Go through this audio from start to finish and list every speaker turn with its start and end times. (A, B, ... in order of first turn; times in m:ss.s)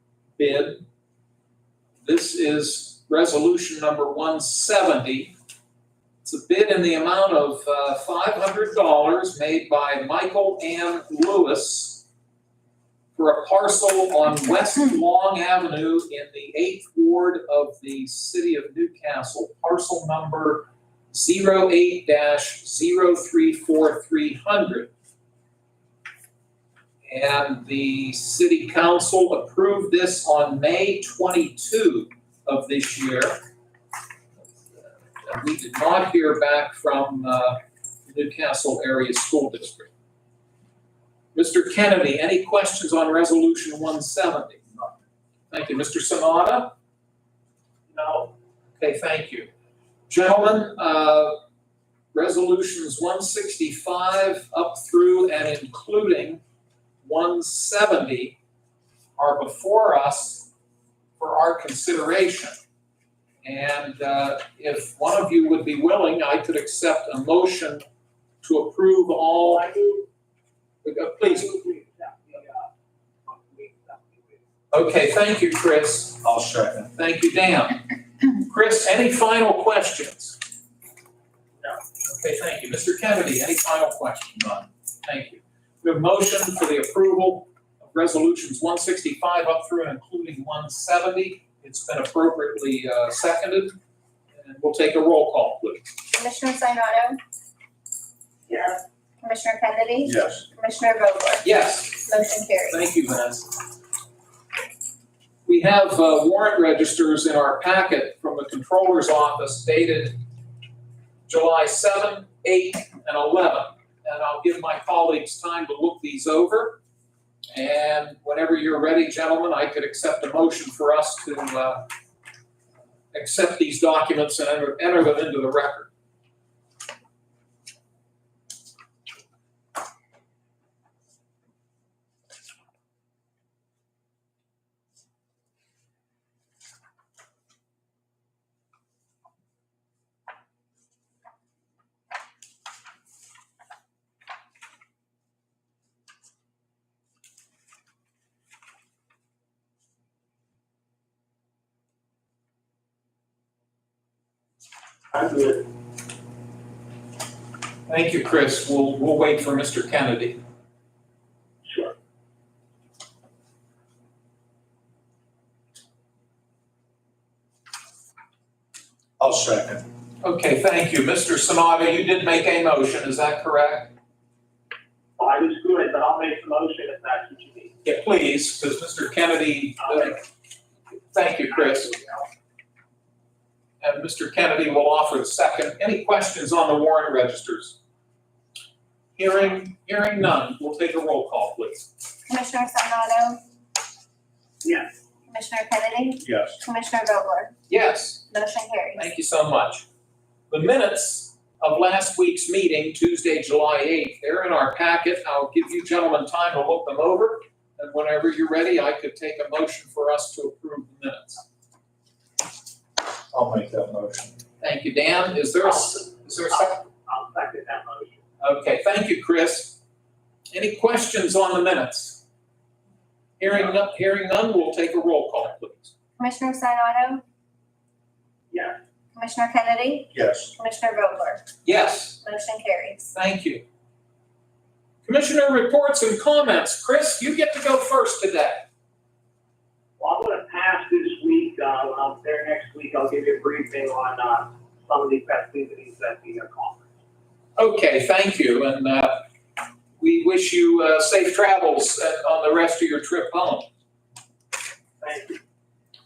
0:00.4-0:00.8 A
0:02.0-0:05.3 A
0:06.2-0:12.0 A
0:13.2-0:24.9 A
0:27.1-0:33.4 A
0:35.2-0:39.9 A
0:41.3-0:44.6 A
0:45.5-0:46.7 A
0:47.9-0:48.3 B
0:48.8-0:49.5 A
0:50.1-0:51.4 A
0:52.1-0:56.4 A
0:57.0-0:58.4 A
0:59.2-1:00.5 A
1:01.2-1:02.6 A
1:03.4-1:07.8 A
1:08.4-1:09.6 A
1:09.4-1:10.1 B
1:10.8-1:11.5 A
1:11.2-1:12.7 B
1:13.2-1:14.4 B
1:14.7-1:16.2 A
1:16.2-1:16.9 C
1:16.9-1:20.4 A
1:22.0-1:33.7 A
1:34.3-1:35.9 A
1:36.1-1:37.2 D
1:38.5-1:38.8 B
1:39.2-1:41.4 D
1:40.0-1:40.4 C
1:41.4-1:42.1 A
1:42.0-1:42.8 D
1:42.7-1:43.6 A
1:45.4-1:50.2 A
1:51.3-1:56.8 A
1:57.5-2:01.8 A
2:03.1-2:05.9 A
2:35.1-2:35.7 B
2:37.9-2:40.4 A
2:41.6-2:41.9 B
2:49.2-2:49.8 C
2:50.2-2:53.9 A
2:55.2-2:57.7 B
2:57.8-3:00.2 A
2:59.8-3:00.1 B
3:01.1-3:01.9 A
3:01.5-3:02.3 B
3:03.8-3:07.8 A
3:09.2-3:11.9 A
3:12.3-3:13.4 D
3:14.6-3:14.9 B
3:15.3-3:17.5 D
3:16.2-3:16.6 C
3:17.7-3:18.3 A
3:18.3-3:19.1 D
3:19.0-3:19.9 A
3:20.5-3:31.4 A
3:33.3-3:34.4 C
3:34.6-3:36.8 A
3:35.9-3:38.2 B
3:38.4-3:39.8 A
3:40.5-3:42.2 A
3:43.4-3:45.9 A
3:46.2-3:47.2 D
3:48.5-3:48.8 B
3:49.1-3:51.5 D
3:50.1-3:50.5 C
3:51.6-3:52.2 A
3:52.2-3:53.1 D
3:53.1-3:53.6 A
3:55.0-3:58.7 A
4:00.0-4:06.9 B
4:07.6-4:09.2 A
4:10.0-4:13.7 A
4:15.0-4:15.4 B